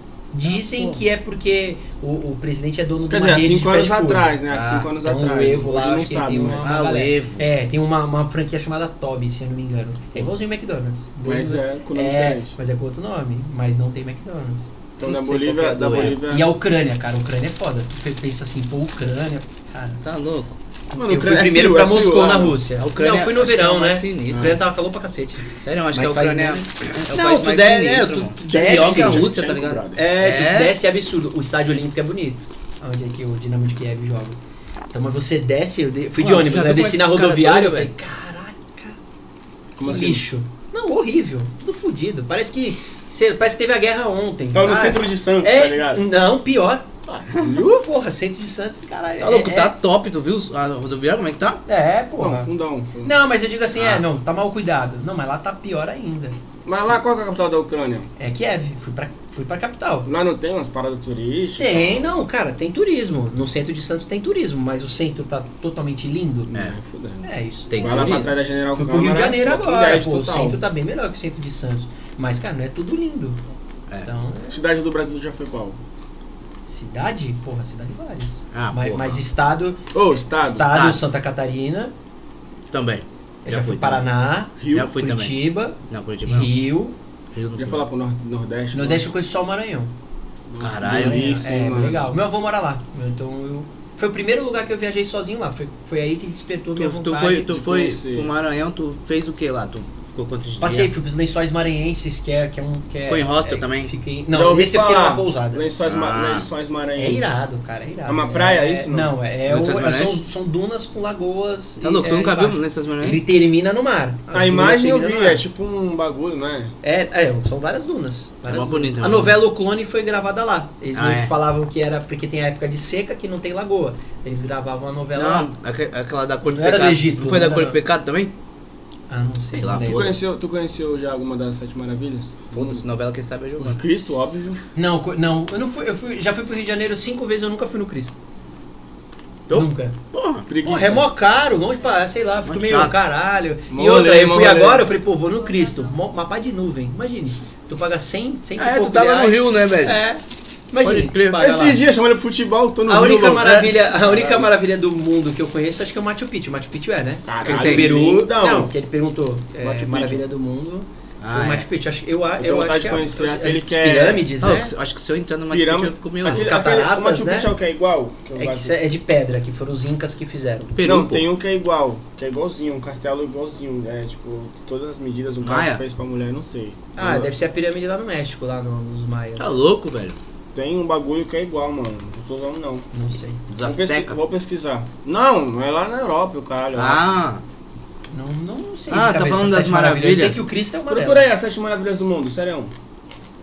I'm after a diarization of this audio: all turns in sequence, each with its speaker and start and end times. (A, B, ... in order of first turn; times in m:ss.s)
0:00.3-0:04.4 A
0:00.5-0:01.0 B
0:03.1-0:06.8 C
0:04.5-0:04.9 B
0:05.0-0:14.7 A
0:06.6-0:07.4 B
0:11.2-0:12.6 C
0:15.0-0:16.5 C
0:15.0-0:16.2 B
0:15.9-0:20.0 A
0:20.0-0:20.6 B
0:20.9-0:29.3 A
0:20.9-0:22.6 C
0:22.8-0:24.6 B
0:24.3-0:24.6 C
0:25.6-0:30.8 B
0:28.5-0:30.0 C
0:29.9-0:34.4 A
0:34.9-0:39.0 A
0:36.2-0:37.9 B
0:39.8-0:40.2 C
0:39.8-0:46.9 A
0:44.5-0:46.0 C
0:47.1-0:47.8 C
0:47.4-0:49.8 A
0:49.2-0:51.6 B
0:51.7-0:52.5 A
0:52.2-0:53.2 C
0:53.0-0:56.4 A
0:53.8-0:54.0 B
0:56.7-0:58.1 C
0:58.2-1:00.1 A
1:00.1-1:02.2 C
1:01.6-1:06.5 A
1:06.5-1:10.6 C
1:07.2-1:13.4 A
1:07.7-1:08.3 B
1:14.0-1:14.6 A
1:14.5-1:15.8 C
1:16.6-1:21.9 A
1:18.5-1:19.2 B
1:19.9-1:20.8 C
1:20.6-1:21.0 B
1:22.7-1:24.0 B
1:23.4-1:27.0 A
1:24.6-1:25.0 C
1:24.7-1:26.6 B
1:27.3-1:27.9 B
1:27.6-1:29.1 C
1:28.7-1:29.9 A
1:30.5-1:32.1 C
1:30.6-1:31.3 B
1:30.9-1:37.5 A
1:36.8-1:40.9 B
1:37.4-1:38.3 C
1:40.6-1:45.6 A
1:43.1-1:43.9 B
1:44.3-1:47.5 C
1:45.8-1:46.5 B
1:47.0-1:55.4 A
1:48.1-1:49.1 C
1:49.5-1:50.2 B
1:51.8-1:53.2 B
1:54.3-1:56.7 C
1:56.8-2:05.5 A
1:58.5-1:59.4 B
2:01.0-2:01.3 B
2:05.2-2:08.3 B
2:06.5-2:07.8 A
2:09.1-2:10.2 A
2:09.5-2:10.1 B
2:09.8-2:12.8 C
2:12.5-2:14.3 B
2:13.6-2:14.6 C
2:14.8-2:18.2 A
2:19.5-2:20.5 B
2:19.5-2:20.0 A
2:20.5-2:21.1 C
2:20.6-2:31.8 A
2:22.4-2:22.9 B
2:23.7-2:24.9 C
2:28.6-2:30.0 B
2:30.8-2:31.4 B
2:31.4-2:34.5 C
2:32.9-2:44.7 A
2:37.3-2:38.7 C
2:37.4-2:37.9 B
2:39.6-2:40.2 C
2:41.2-2:41.7 B
2:42.4-2:44.3 C
2:44.4-2:46.5 B
2:45.5-2:48.8 C
2:46.2-2:47.5 A
2:48.4-2:50.8 A
2:50.8-2:51.3 B
2:50.8-2:57.3 C
2:55.4-2:55.8 B
2:57.0-2:59.6 A
2:59.4-3:00.2 B
3:00.5-3:02.9 C
3:02.9-3:03.4 A
3:03.5-3:04.2 B
3:03.6-3:07.0 C
3:06.8-3:07.4 B
3:08.1-3:11.3 A
3:08.9-3:10.4 B
3:10.9-3:12.7 C